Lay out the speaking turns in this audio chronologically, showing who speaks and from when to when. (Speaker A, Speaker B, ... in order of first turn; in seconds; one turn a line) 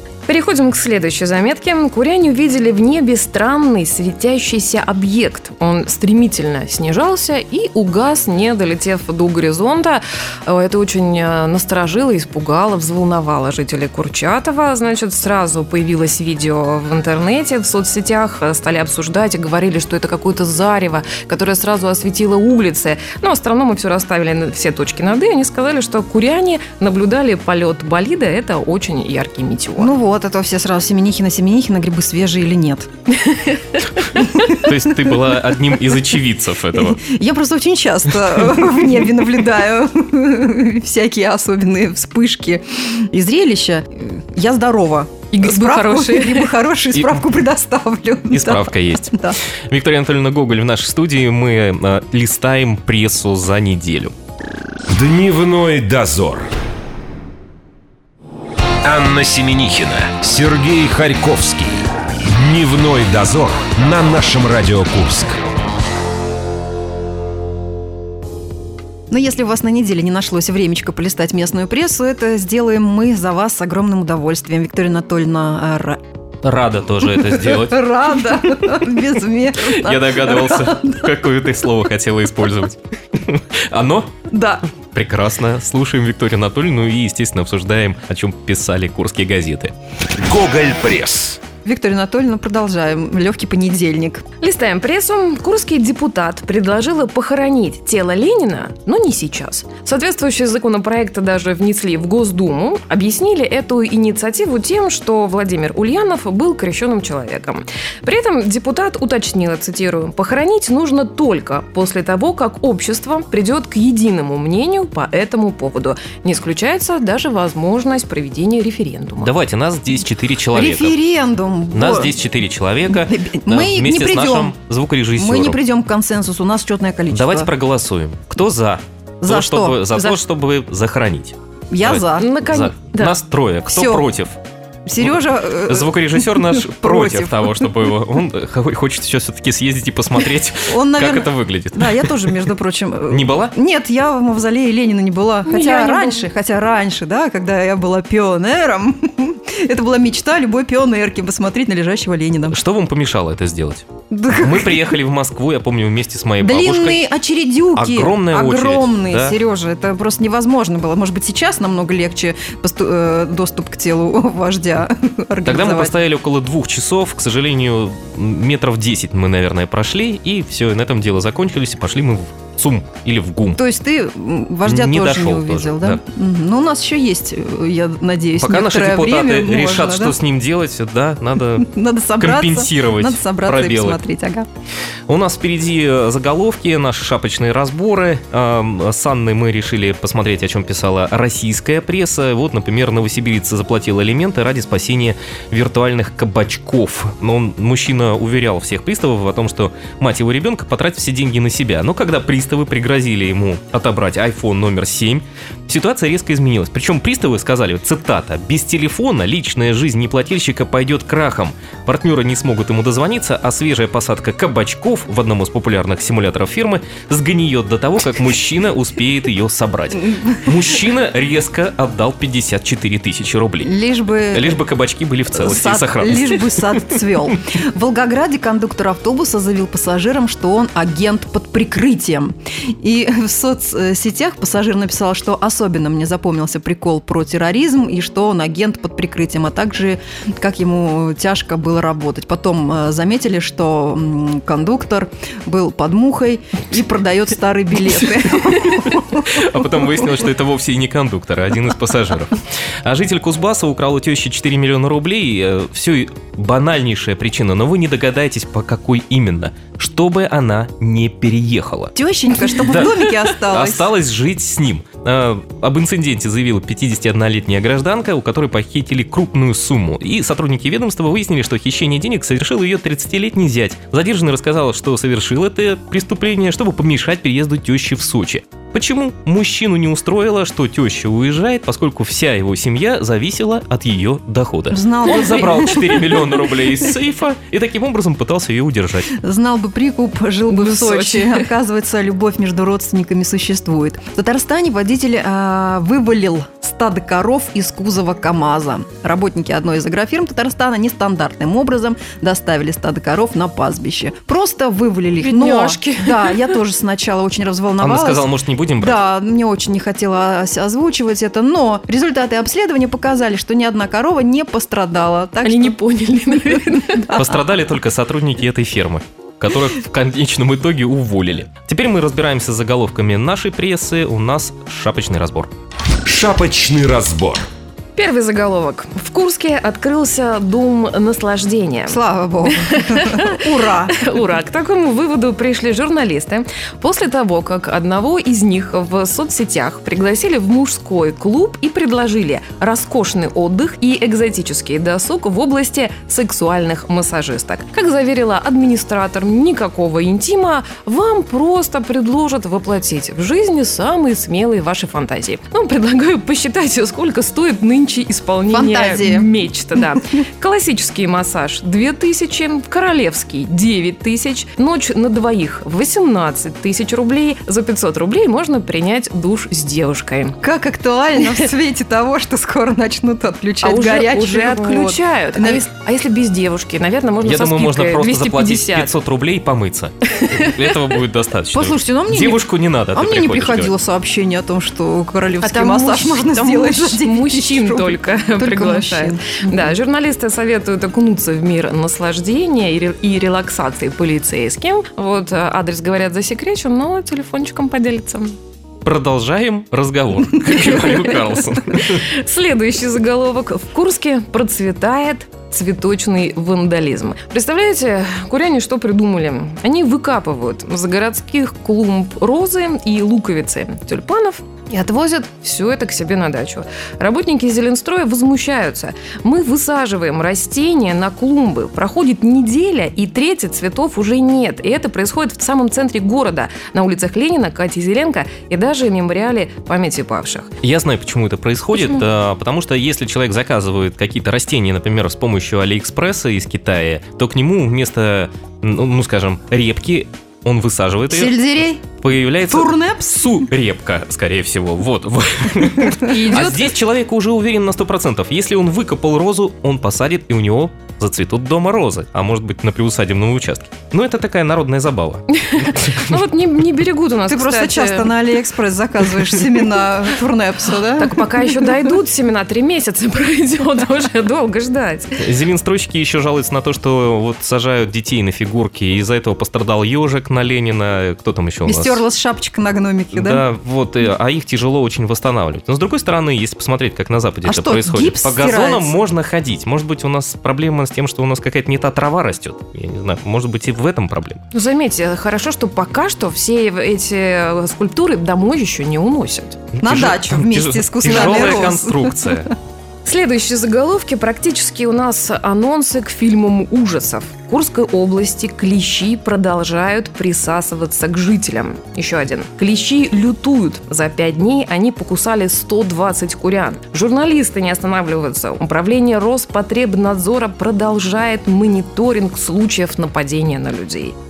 Speaker A: 0.3-29.9
Speaker B: 29.8-32.9
Speaker A: 33.2-34.5
Speaker C: 34.5-37.0
Speaker B: 36.7-49.4
Speaker A: 45.3-46.5
Speaker C: 46.9-47.3
Speaker C: 48.3-49.2
Speaker C: 49.7-54.1
Speaker D: 54.9-56.5
Speaker D: 58.8-65.4
Speaker B: 69.1-76.0
Speaker C: 76.4-78.7
Speaker B: 77.2-81.1
Speaker C: 79.5-84.1
Speaker B: 84.3-84.6
Speaker C: 84.9-89.7
Speaker D: 90.2-91.4
Speaker B: 91.6-94.2
Speaker A: 94.4-119.4
Speaker C: 119.2-121.0
Speaker B: 120.5-122.2
Speaker C: 121.7-125.6
Speaker B: 122.9-124.5
Speaker B: 125.2-127.5
Speaker C: 127.1-134.4
Speaker B: 129.2-129.9
Speaker B: 131.7-132.3
Speaker A: 132.2-133.2
Speaker B: 133.7-134.1
Speaker B: 134.9-137.7
Speaker C: 135.0-142.5
Speaker B: 140.6-152.6
Speaker C: 143.1-143.5
Speaker A: 145.5-146.3
Speaker C: 152.5-157.1
Speaker B: 154.1-154.8
Speaker B: 156.4-165.9
Speaker C: 157.7-159.4
Speaker C: 165.4-173.6
Speaker B: 173.5-180.2
Speaker C: 174.7-176.0
Speaker C: 178.4-181.7
Speaker B: 181.6-184.5
Speaker C: 182.2-184.0
Speaker C: 185.1-223.7
Speaker B: 223.6-224.6
Speaker C: 224.3-226.9
Speaker B: 225.3-249.3
Speaker C: 248.3-289.1
Speaker B: 261.9-263.9
Speaker B: 284.7-286.4
Speaker B: 289.2-315.8
Speaker A: 290.5-291.5
Speaker A: 305.2-306.6
Speaker C: 307.8-309.0
Speaker A: 315.4-317.2
Speaker B: 316.9-317.2
Speaker C: 317.1-325.5
Speaker D: 326.1-327.5
Speaker A: 327.9-332.0
Speaker B: 331.9-334.0
Speaker A: 332.5-370.4
Speaker B: 358.5-359.3
Speaker B: 370.4-375.6
Speaker A: 373.6-378.9
Speaker C: 377.2-383.7
Speaker A: 380.1-380.6
Speaker B: 381.5-389.8
Speaker A: 385.4-398.4
Speaker C: 398.9-402.1
Speaker A: 400.5-430.5
Speaker C: 430.6-441.4
Speaker A: 431.7-432.0
Speaker B: 441.1-441.8
Speaker C: 442.0-456.2
Speaker B: 442.5-443.5
Speaker B: 446.0-446.5
Speaker A: 446.1-446.7
Speaker A: 455.3-458.2
Speaker B: 457.3-461.7
Speaker A: 461.0-465.2
Speaker C: 465.2-472.0
Speaker B: 471.7-473.4
Speaker C: 473.1-484.4
Speaker B: 477.4-479.0
Speaker A: 484.5-489.6
Speaker C: 489.8-492.5
Speaker B: 489.8-492.5
Speaker A: 491.1-491.7
Speaker A: 493.1-514.1